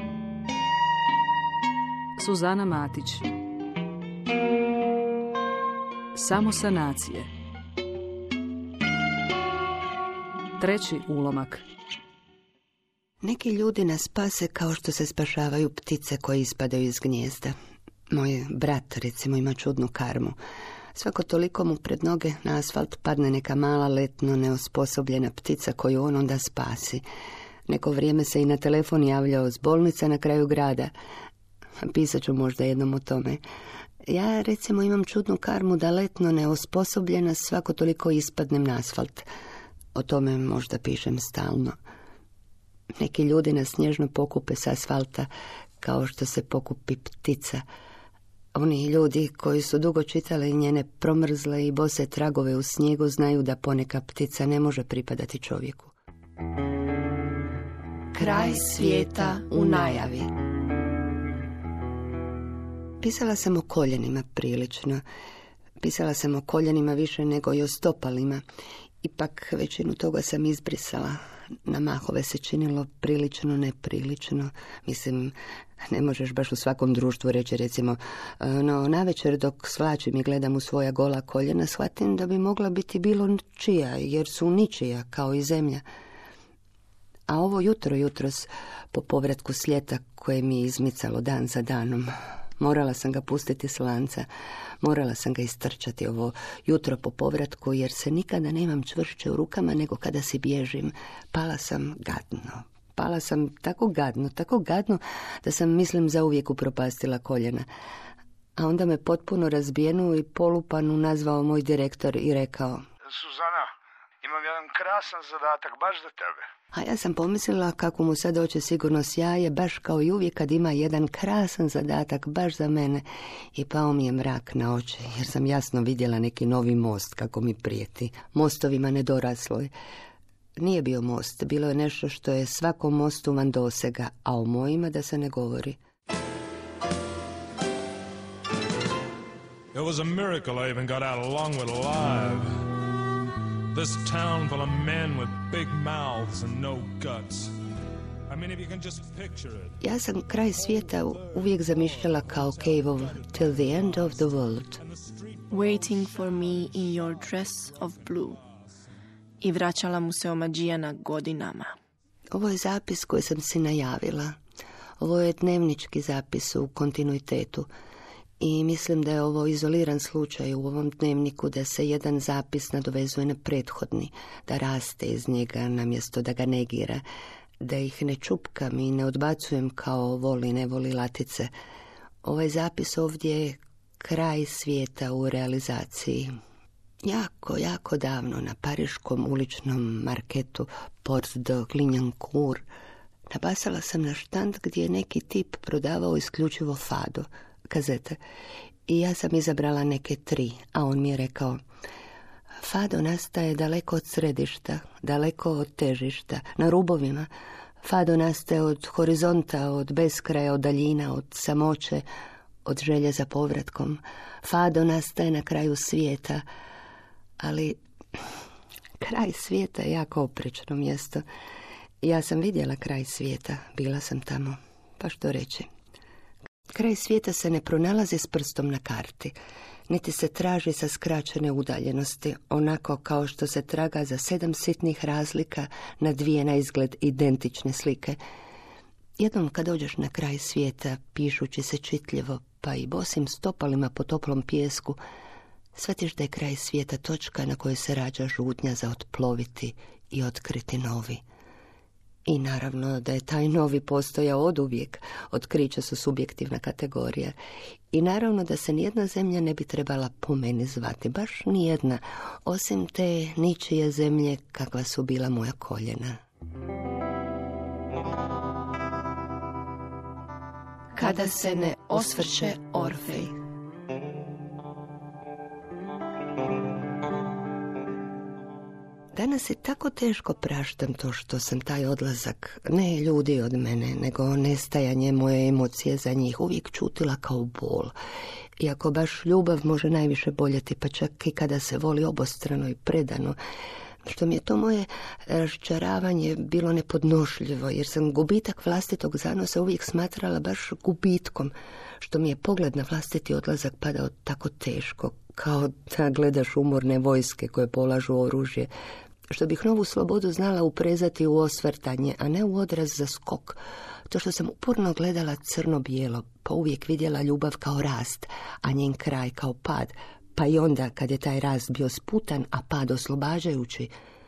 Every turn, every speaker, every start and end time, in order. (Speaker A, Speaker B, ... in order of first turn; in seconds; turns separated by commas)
Speaker A: 2.2-3.3, Speaker A: 6.2-7.3, Speaker A: 10.6-11.6, Speaker B: 13.2-17.6, Speaker B: 18.1-20.4, Speaker B: 20.9-27.0, Speaker B: 27.7-30.9, Speaker B: 31.8-33.4, Speaker B: 34.1-39.3, Speaker B: 39.9-41.8, Speaker B: 43.0-45.3, Speaker B: 45.8-47.6, Speaker B: 48.5-55.9, Speaker B: 58.1-60.3, Speaker C: 58.2-60.1, Speaker B: 63.0-65.0, Speaker B: 65.8-68.4, Speaker B: 69.0-75.3, Speaker B: 75.9-85.8, Speaker B: 87.3-94.3, Speaker B: 94.8-107.7, Speaker B: 108.6-112.8, Speaker D: 113.1-113.7, Speaker D: 114.2-116.4, Speaker B: 116.7-123.0, Speaker B: 123.5-129.7, Speaker B: 130.6-135.8, Speaker E: 139.7-142.6, Speaker E: 143.7-147.5, Speaker E: 148.3-149.7, Speaker B: 149.8-154.8, Speaker E: 151.8-153.7, Speaker E: 154.8-157.1, Speaker C: 155.5-158.4, Speaker C: 159.4-161.7, Speaker B: 162.3-164.4, Speaker B: 165.0-167.7, Speaker B: 168.4-177.0, Speaker B: 177.6-181.5, Speaker B: 182.2-186.3, Speaker B: 187.0-192.7, Speaker B: 193.3-198.2, Speaker B: 198.9-201.6, Speaker B: 202.6-207.3, Speaker B: 207.8-212.1, Speaker B: 212.7-216.4, Speaker B: 217.4-218.2, Speaker B: 219.0-221.2, Speaker B: 222.0-225.7, Speaker B: 226.8-229.3, Speaker B: 229.9-238.2, Speaker B: 239.2-245.0, Speaker B: 245.8-251.2, Speaker B: 252.3-257.4, Speaker B: 257.9-266.2, Speaker B: 270.9-273.4, Speaker C: 271.0-273.3, Speaker B: 279.1-287.9, Speaker B: 288.6-293.4, Speaker B: 294.1-308.7, Speaker B: 309.3-323.9